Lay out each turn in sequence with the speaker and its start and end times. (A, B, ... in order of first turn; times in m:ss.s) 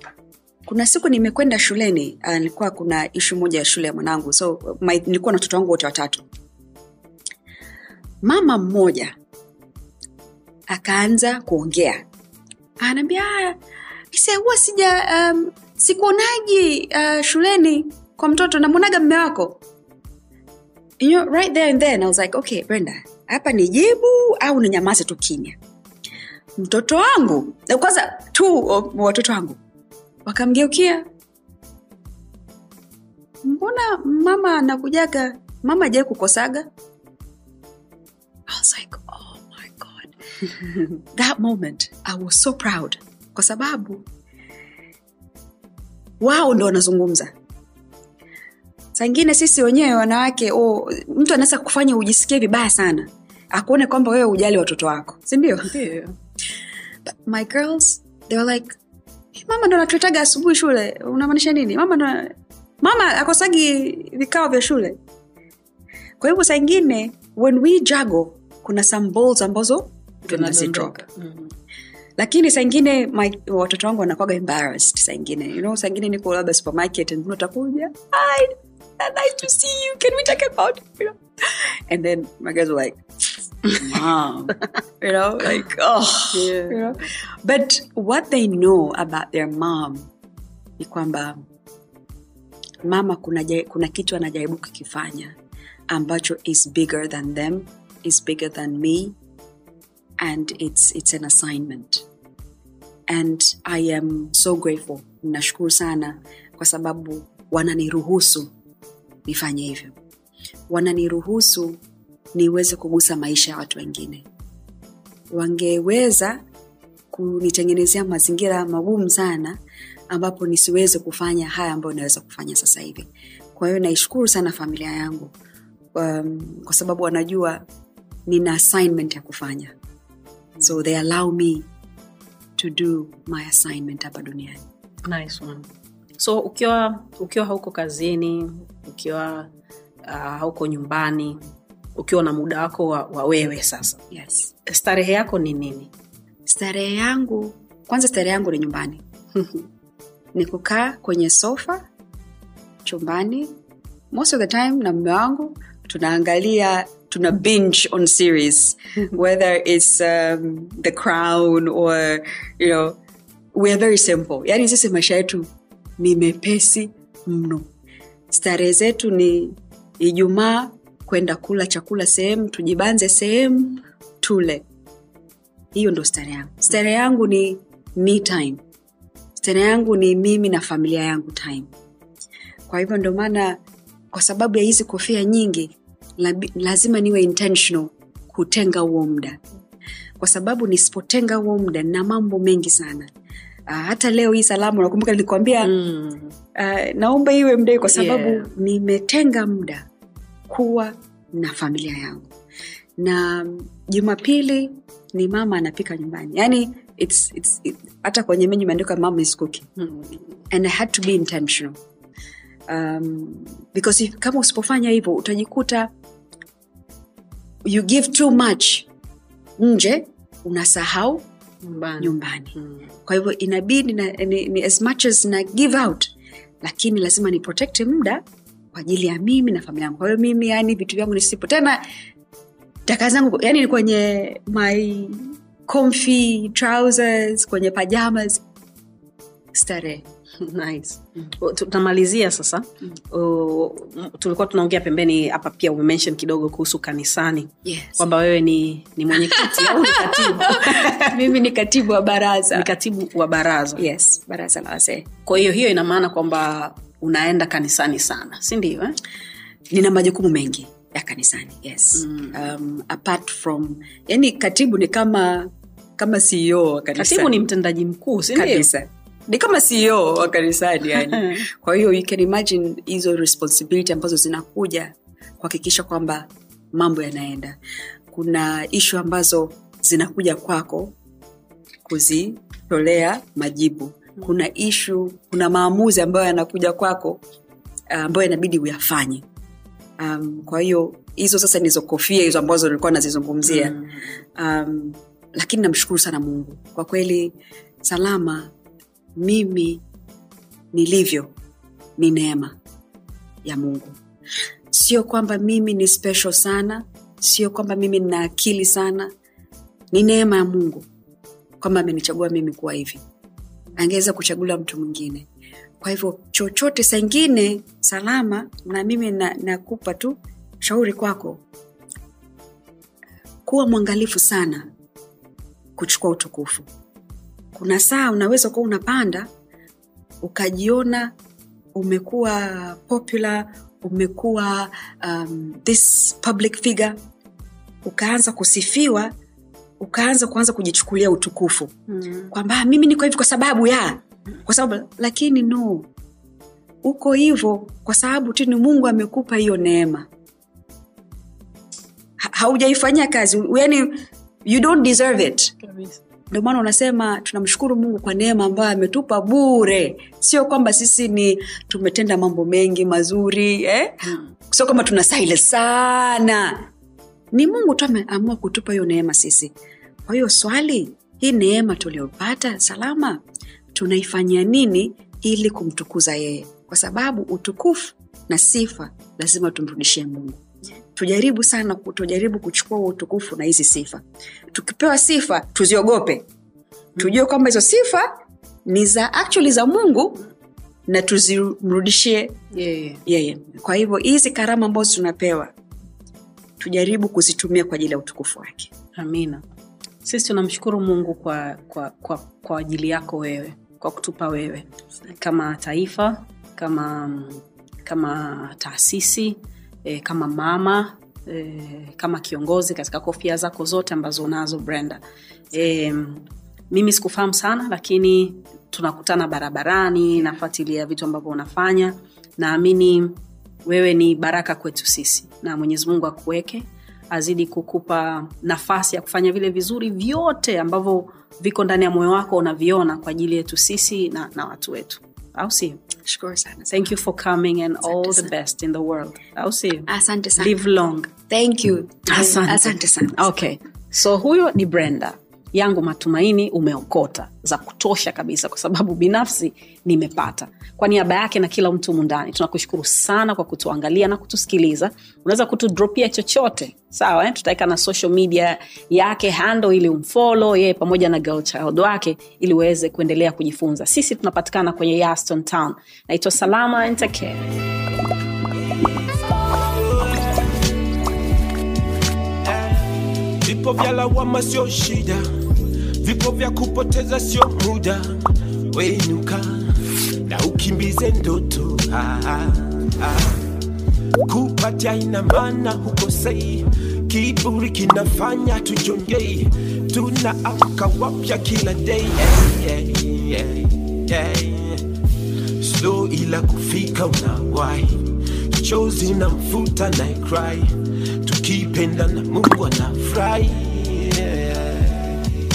0:00.6-0:06.2 A
0:08.2-0:09.1 A
0:10.7-0:12.0 A
0:12.8-0:13.6 A
0:14.1-0:19.6 A
0:21.0-0:25.6 A
0:26.6-0:29.6 A
0:30.2-0:31.0 A
0:33.4-0:36.7 A
0:38.5-0:44.0 A
0:46.2-0:47.3 A
0:48.9-0:55.7 A
0:55.7-0:56.1 B
0:57.0-0:58.8 A
0:59.3-1:05.0 A
1:06.2-1:11.0 A
1:10.3-1:11.5 B
1:12.2-1:23.0 A
1:23.6-1:30.1 A
1:26.3-1:26.8 B
1:30.8-1:31.4 A
1:32.8-1:35.4 A
1:35.9-1:39.2 A
1:40.2-1:42.0 A
1:43.1-1:48.5 A
1:49.2-1:50.0 A
1:50.7-1:51.8 A
1:52.3-1:54.2 A
1:55.3-1:56.4 A
1:57.1-1:59.6 A
2:00.1-2:05.3 A
2:05.9-2:07.6 A
2:08.3-2:09.7 A
2:10.6-2:11.7 A
2:12.6-2:14.6 A
2:15.0-2:19.5 B
2:20.0-2:21.4 B
2:22.0-2:24.0 B
2:24.1-2:24.5 A
2:24.6-2:25.9 B
2:26.4-2:29.0 A
2:30.3-2:31.8 A
2:32.8-2:33.5 A
2:34.1-2:43.0 A
2:43.5-2:47.7 A
2:48.3-2:54.6 A
2:55.7-2:58.6 A
2:59.4-3:01.7 A
3:02.7-3:03.6 A
3:04.1-3:09.4 A
3:10.2-3:13.1 A
3:13.7-3:15.7 A
3:15.6-3:16.3 B
3:16.5-3:19.8 A
3:17.9-3:18.5 B
3:20.5-3:22.3 A
3:23.0-3:29.7 A
3:29.8-3:30.2 B
3:30.5-3:31.8 A
3:32.7-3:35.9 A
3:37.6-3:38.9 A
3:39.6-3:41.2 A
3:41.6-3:42.8 B
3:42.0-3:42.5 A
3:43.0-3:51.8 A
3:52.8-3:58.4 A
3:59.5-4:00.0 A
4:00.4-4:11.1 B
4:07.6-4:08.0 A
4:09.3-4:12.7 A
4:12.5-4:13.8 B
4:13.8-4:15.1 A
4:15.2-4:19.0 B
4:19.7-4:27.4 A
4:22.1-4:22.3 B
4:27.0-4:28.7 B
4:28.3-4:37.6 A
4:38.1-4:40.9 A
4:41.8-4:47.2 A
4:47.9-4:49.2 A
4:50.0-4:53.8 A
4:54.3-4:58.5 A
4:59.2-4:59.8 A
5:00.7-5:01.3 A
5:02.0-5:02.6 A
5:03.4-5:04.0 A
5:04.7-5:09.1 A
5:09.9-5:10.9 A
5:11.6-5:13.0 A
5:13.8-5:15.2 A
5:15.8-5:21.4 A
5:23.4-5:24.7 A
5:25.8-5:26.7 A
5:27.5-5:29.3 A
5:30.2-5:31.1 A
5:31.7-5:37.0 A
5:37.8-5:39.1 A
5:39.8-5:41.8 A
5:41.9-5:42.3 B
5:42.3-5:45.9 A
5:46.8-5:50.1 A
5:52.2-5:55.5 A
5:55.6-5:56.0 B
5:56.3-6:06.7 A
6:07.3-6:09.5 A
6:10.0-6:13.2 A
6:13.7-6:20.4 A
6:20.9-6:26.3 A
6:27.0-6:30.2 A
6:30.9-6:32.4 A
6:32.5-6:33.0 B
6:33.0-6:35.5 A
6:36.6-6:38.7 A
6:39.0-6:39.4 B
6:40.0-7:15.8 B
7:16.0-7:16.9 A
7:16.7-7:21.1 B
7:17.9-7:18.3 A
7:19.9-7:20.6 A
7:21.3-7:23.3 A
7:22.1-7:47.5 B
7:48.8-7:50.6 C
7:52.4-8:03.6 C
8:04.3-8:14.9 C
8:15.6-8:25.3 C